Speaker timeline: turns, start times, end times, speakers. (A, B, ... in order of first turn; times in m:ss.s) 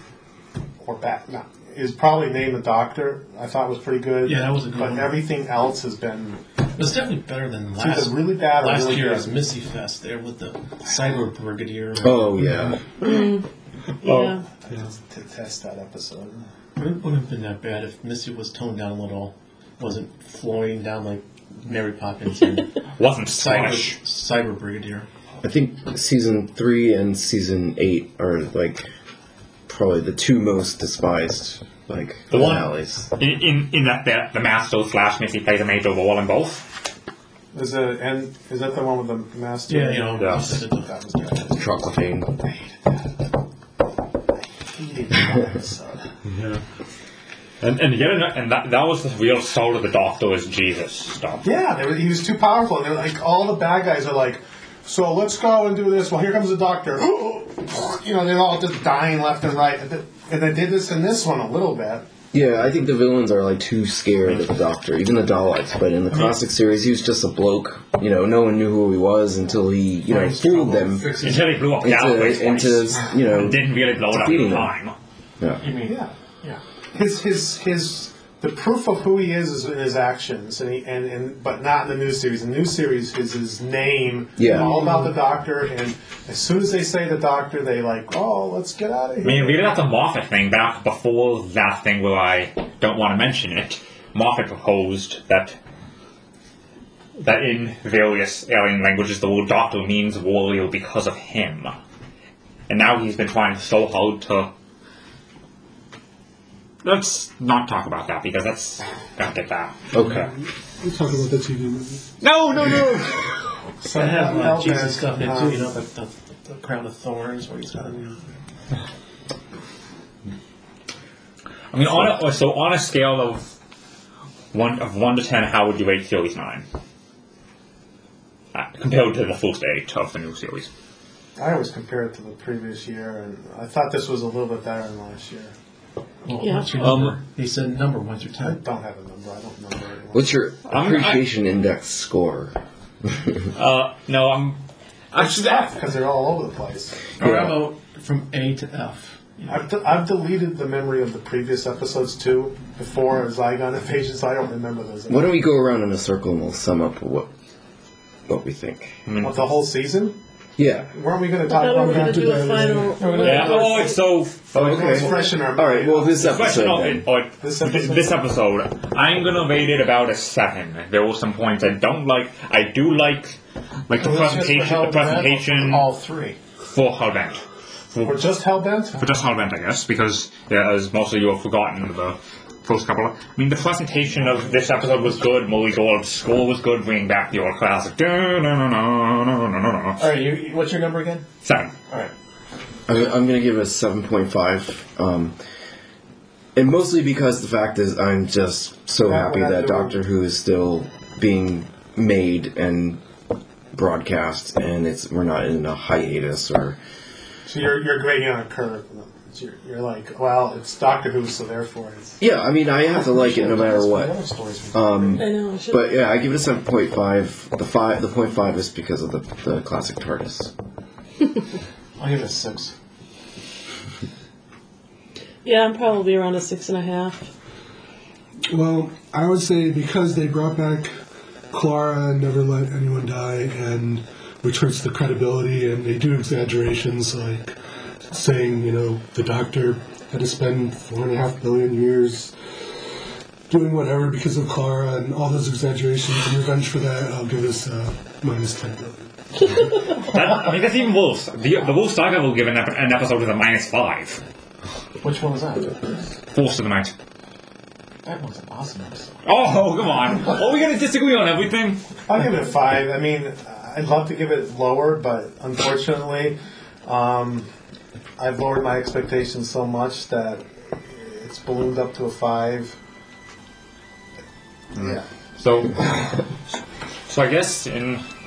0:00.8-0:06.4 A
0:04.2-0:05.2 B
0:06.8-0:12.4 B
0:07.8-0:09.3 A
0:12.0-0:12.8 C
0:13.0-0:13.4 D
0:14.0-0:14.4 E
0:14.0-0:14.4 D
0:14.6-0:16.5 A
0:16.8-0:22.8 B
0:22.9-0:24.0 E
0:23.3-0:25.1 B
0:25.4-0:28.8 C
0:29.7-0:33.1 C
0:32.3-0:36.7 E
0:37.5-0:41.7 A
0:39.7-0:41.5 B
0:40.2-0:40.4 E
0:41.5-0:42.4 C
0:42.4-0:43.2 A
0:44.7-0:46.1 A
0:46.3-0:46.6 E
0:47.6-0:51.5 E
0:51.4-1:02.0 A
1:02.3-1:11.2 C
1:06.1-1:06.4 B
1:10.1-1:11.6 B
1:11.2-1:14.9 E
1:11.8-1:14.7 C
1:15.6-1:16.6 B
1:15.8-1:16.1 A
1:16.9-1:29.7 A
1:24.4-1:25.0 C
1:29.2-1:35.6 E
1:37.2-1:41.8 E
1:42.7-1:44.5 E
1:46.8-1:50.3 E
1:49.9-1:50.3 C
1:50.8-1:52.0 F
1:52.2-1:53.2 E
1:53.8-1:55.8 A
1:53.9-1:58.2 B
2:01.7-2:03.5 E
2:04.5-2:06.6 E
2:08.5-2:10.7 E
2:11.4-2:15.5 A
2:16.2-2:18.6 B
2:16.4-2:16.7 D
2:16.8-2:17.2 E
2:18.4-2:20.3 A
2:20.1-2:23.4 C
2:20.7-2:21.2 E
2:23.5-2:24.6 E
2:25.1-2:25.7 E
2:25.2-2:27.0 A
2:27.2-2:29.6 B
2:27.2-2:27.6 C
2:29.5-2:35.3 A
2:35.1-2:37.3 C
2:38.3-2:39.0 C
2:39.0-2:39.5 E
2:39.2-2:40.2 A
2:40.6-2:40.9 C
2:40.9-2:42.5 A
2:41.4-2:44.0 D
2:41.8-2:43.0 F
2:43.0-2:43.9 B
2:43.2-2:45.3 E
2:44.5-2:46.6 A
2:44.5-2:47.1 C
2:46.2-2:53.4 E
2:47.4-2:48.1 A
2:53.9-2:55.9 E
2:54.0-2:56.4 B
2:56.7-2:58.3 E
2:58.0-2:59.0 A
2:59.0-3:10.1 E
3:10.0-3:11.2 B
3:11.4-3:11.7 E
3:12.9-3:15.4 C
3:16.6-3:23.0 C
3:19.0-3:20.0 A
3:23.7-3:26.8 C
3:27.5-3:32.2 A
3:32.2-3:34.1 C
3:32.9-3:35.2 B
3:34.7-3:40.5 C
3:35.2-3:35.9 D
3:42.0-3:42.7 B
3:45.4-3:47.3 D
3:48.5-3:50.9 F
3:51.5-3:57.6 F
3:58.1-4:02.3 F
4:03.5-4:09.7 F
4:09.8-4:14.2 E
4:15.0-4:16.0 B
4:16.3-4:16.9 E
4:18.0-4:19.2 B
4:19.2-4:21.8 E
4:22.1-4:27.5 A
4:28.2-4:32.8 A
4:34.8-4:36.4 E
4:37.1-4:38.0 E